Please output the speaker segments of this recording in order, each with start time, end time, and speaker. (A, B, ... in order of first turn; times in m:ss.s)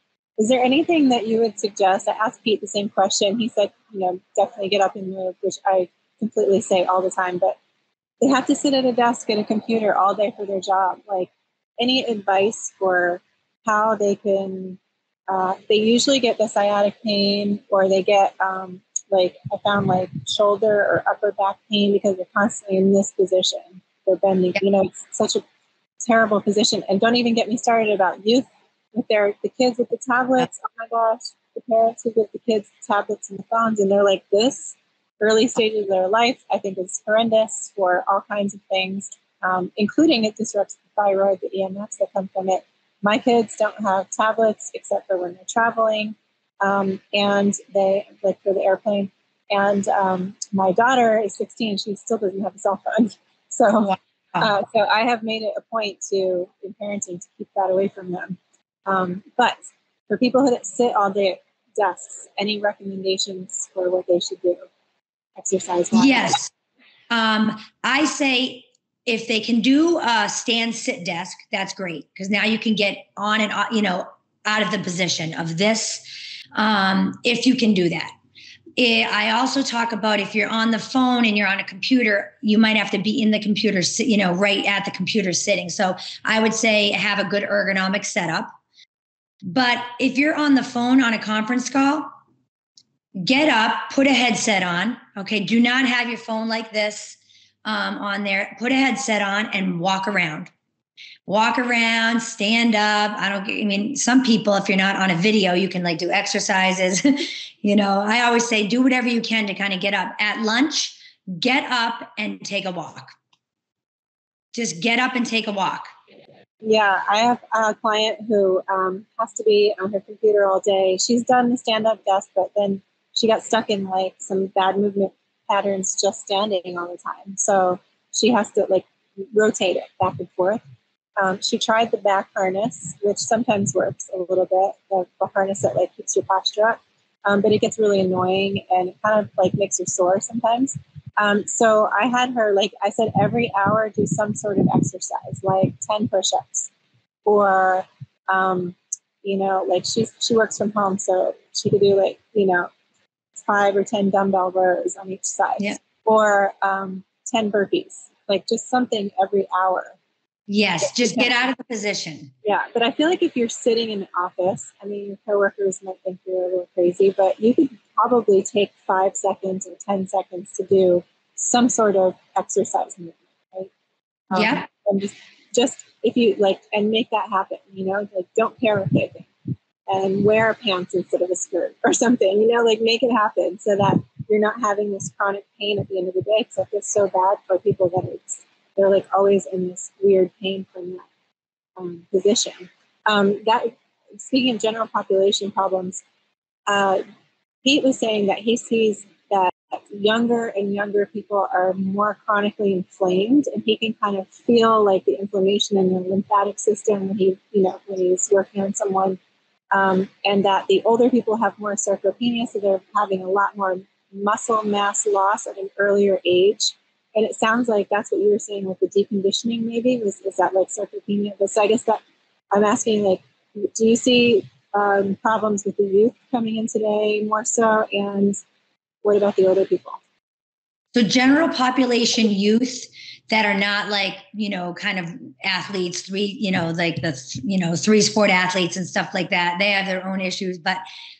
0:00.4-0:07.6 A
0:08.2-0:25.4 A
0:26.0-0:59.6 A
0:53.9-0:54.5 B
1:00.1-1:04.6 A
1:05.4-1:06.4 A
1:05.9-1:06.5 B
1:07.1-1:16.0 B
1:16.5-1:18.1 B
1:18.8-1:28.5 B
1:29.4-1:32.1 B
1:33.2-1:40.5 B
1:41.2-1:53.1 B
1:54.5-1:55.9 B
1:56.6-2:10.6 A
2:11.2-2:26.7 A
2:27.2-2:32.7 A
2:33.4-2:40.0 A
2:40.5-2:42.3 B
2:40.8-2:41.3 A
2:42.4-2:53.7 A
2:54.3-2:59.3 A
2:54.3-2:54.6 B
2:59.9-3:11.0 A
3:11.8-3:16.0 A
3:16.7-3:17.0 A
3:17.6-3:29.2 A
3:29.7-3:42.0 A
3:42.5-3:48.4 A
3:49.0-3:50.0 A
3:50.9-4:00.8 B